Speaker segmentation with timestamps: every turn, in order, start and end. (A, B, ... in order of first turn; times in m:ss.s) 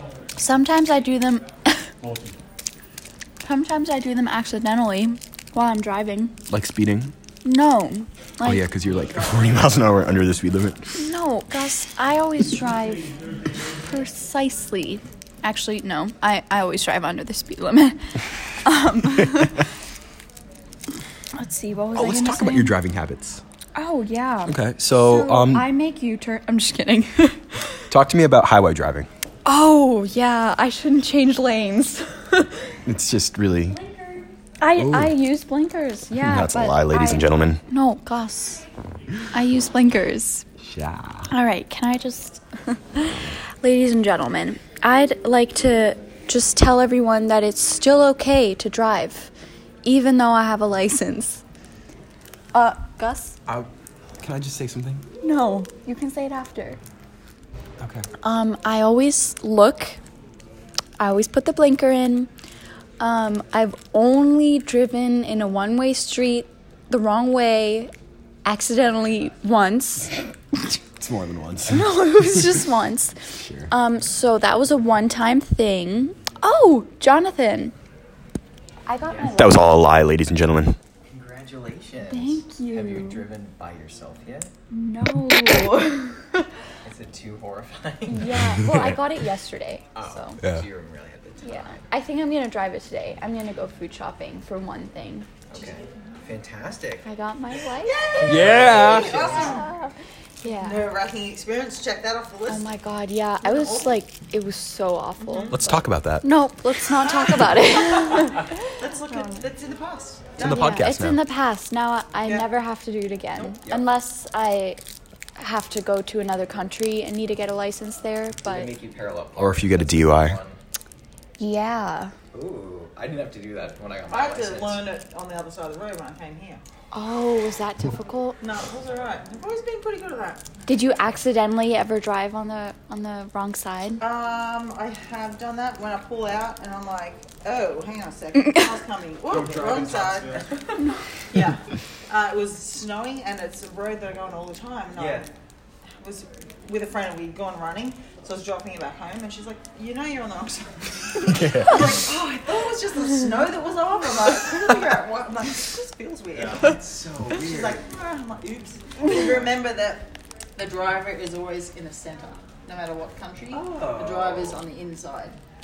0:00.4-0:01.9 A
0:03.4-0:06.4 A
0:06.5-0:07.1 B
0:07.4-0:08.6 A
0:08.4-0:10.8 B
0:10.9-0:13.1 A
0:13.7-0:19.7 A
0:21.3-0:22.8 A
0:22.0-0:23.4 B
0:23.8-0:27.8 A
0:24.5-0:25.7 B
0:27.9-0:29.1 B
0:29.4-0:32.8 A
0:32.9-0:33.8 B
0:34.6-0:38.6 A
0:34.8-0:35.2 B
0:36.1-0:37.6 B
0:39.3-0:40.4 A
0:40.6-0:41.3 B
0:41.3-0:49.3 A
0:49.8-0:51.4 A
0:52.5-0:53.4 A
0:54.2-0:55.0 B
0:55.2-0:56.8 A
0:57.8-0:58.1 B
0:58.2-1:00.0 A
1:01.0-1:02.3 A
1:03.0-1:07.9 A
1:08.4-1:10.2 A
1:11.0-1:11.9 B
1:11.7-1:17.7 A
1:13.4-1:13.7 B
1:18.9-1:19.6 A
1:19.3-1:20.8 B
1:21.1-1:24.5 C
1:22.1-1:23.3 A
1:24.7-1:26.5 A
1:26.8-1:28.2 C
1:28.1-1:30.4 A
1:28.2-1:28.9 B
1:30.0-1:31.8 C
1:30.4-1:30.7 B
1:31.4-1:35.3 A
1:35.5-1:37.1 C
1:37.0-1:38.0 A
1:37.9-1:39.7 D
1:37.9-1:39.5 C
1:38.2-1:39.2 B
1:39.2-1:40.8 A
1:40.4-1:42.7 D
1:42.5-1:45.6 A
1:43.4-1:44.0 D
1:45.5-1:46.3 B
1:46.2-1:48.6 A
1:48.8-1:50.7 D
1:49.1-1:49.4 A
1:50.4-1:51.2 B
1:50.4-1:54.8 A
1:55.4-1:58.7 A
1:58.4-2:00.6 C
1:59.4-2:00.4 B
2:01.4-2:02.1 A
2:02.3-2:04.9 C
2:04.1-2:06.6 D
2:06.9-2:08.4 A
2:08.4-2:10.4 D
2:10.7-2:14.0 A
2:14.0-2:20.7 D
2:21.3-2:25.3 D
2:26.0-2:45.4 D
2:31.3-2:31.8 B
2:36.4-2:37.9 C
2:43.5-2:44.6 C